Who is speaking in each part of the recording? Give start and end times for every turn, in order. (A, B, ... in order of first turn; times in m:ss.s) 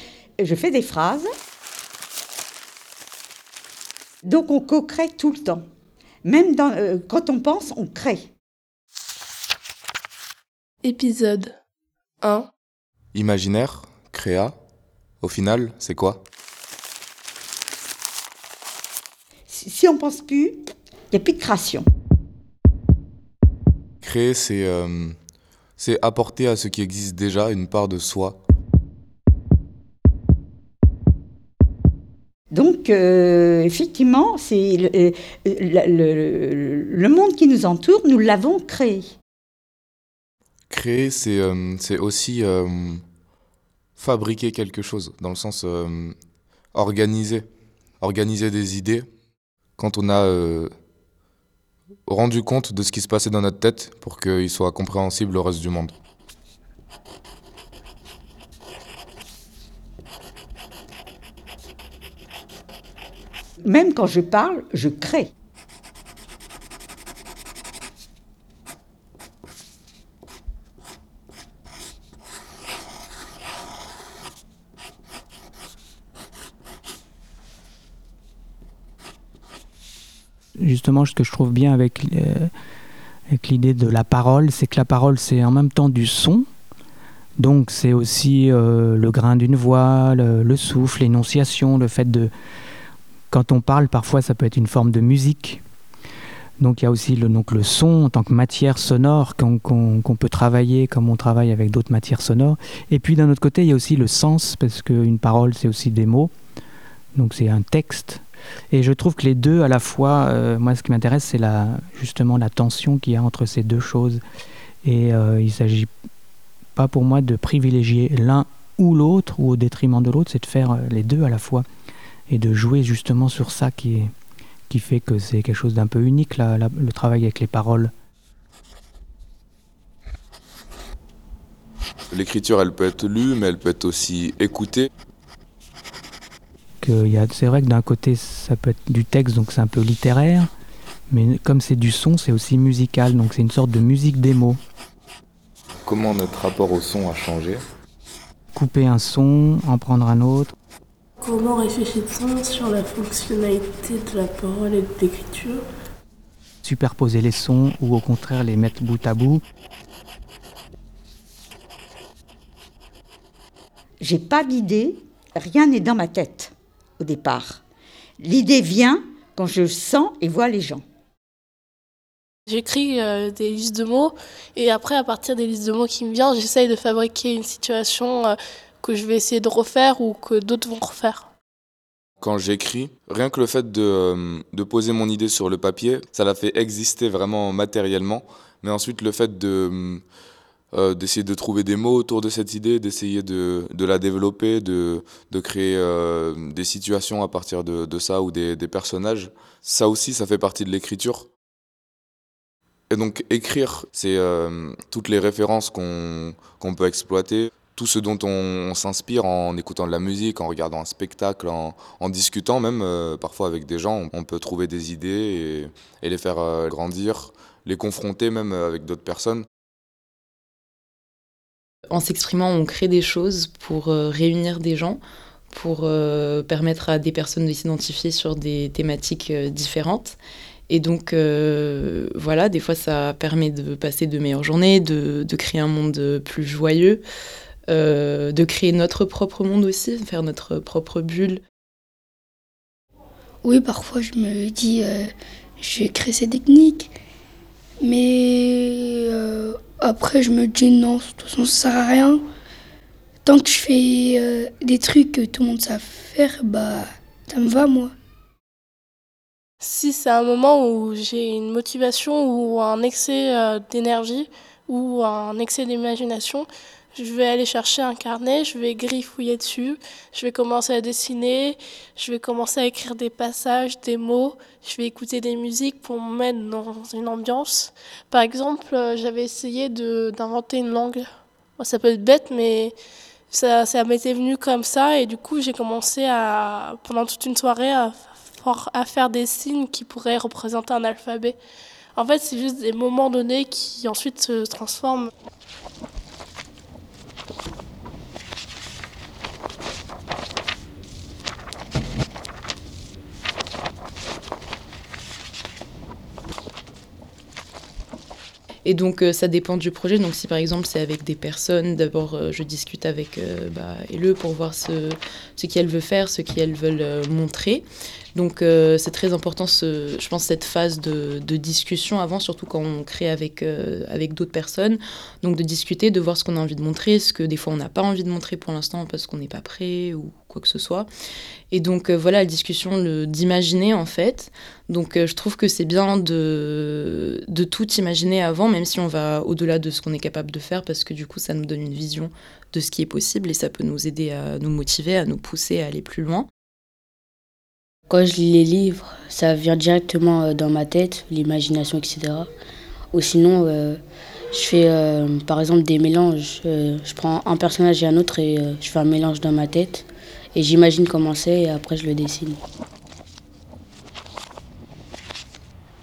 0:00.4-0:01.3 A
0:04.2-0:05.6 A
0:06.2-0:08.3 A
0:10.8-0:11.5 B
0:12.2-0:12.5 B
0:13.1-0:14.5 C
0:15.2-0:16.2 C
0:19.5-0:20.6 A
0:21.1-0:21.9 A
0:24.0-0:25.1 C
0:25.8-0:28.4 C
0:32.5-0:39.1 A
0:40.7-0:43.0 C
0:44.0-0:46.1 C
0:46.7-0:47.4 C
0:48.0-0:49.1 C
0:49.8-0:50.7 C
0:52.0-0:55.9 C
1:03.6-1:05.3 A
1:20.6-1:22.5 D
1:23.3-1:26.4 D
1:27.4-1:32.3 D
1:33.3-1:35.6 D
1:36.6-1:46.3 D
1:47.1-1:54.2 D
1:54.8-1:55.9 D
1:56.8-2:01.6 D
2:02.3-2:04.1 D
2:04.7-2:07.9 D
2:12.1-2:14.8 C
2:16.8-2:20.5 D
2:21.1-2:24.6 D
2:25.8-2:27.6 C
2:28.5-2:30.5 D
2:31.2-2:35.6 B
2:36.6-2:39.4 D
2:44.0-2:47.6 A
2:48.2-2:50.8 A
2:52.5-3:01.3 B
3:02.2-3:10.0 C
3:10.7-3:21.2 C
3:22.9-3:39.4 C
3:41.9-3:45.0 E
3:45.5-3:50.2 E
3:50.7-3:57.0 E
3:57.7-4:01.4 E
4:03.4-4:05.1 F
4:05.6-4:06.9 F
4:07.8-4:12.2 F
4:13.2-4:17.9 F
4:19.6-4:41.0 B
4:41.6-4:42.7 B
4:43.3-4:51.4 B
4:52.0-4:55.1 B
5:08.6-5:30.9 E
5:31.5-5:46.3 E
5:47.9-5:52.3 G
5:52.9-5:53.8 G
5:54.3-6:02.4 G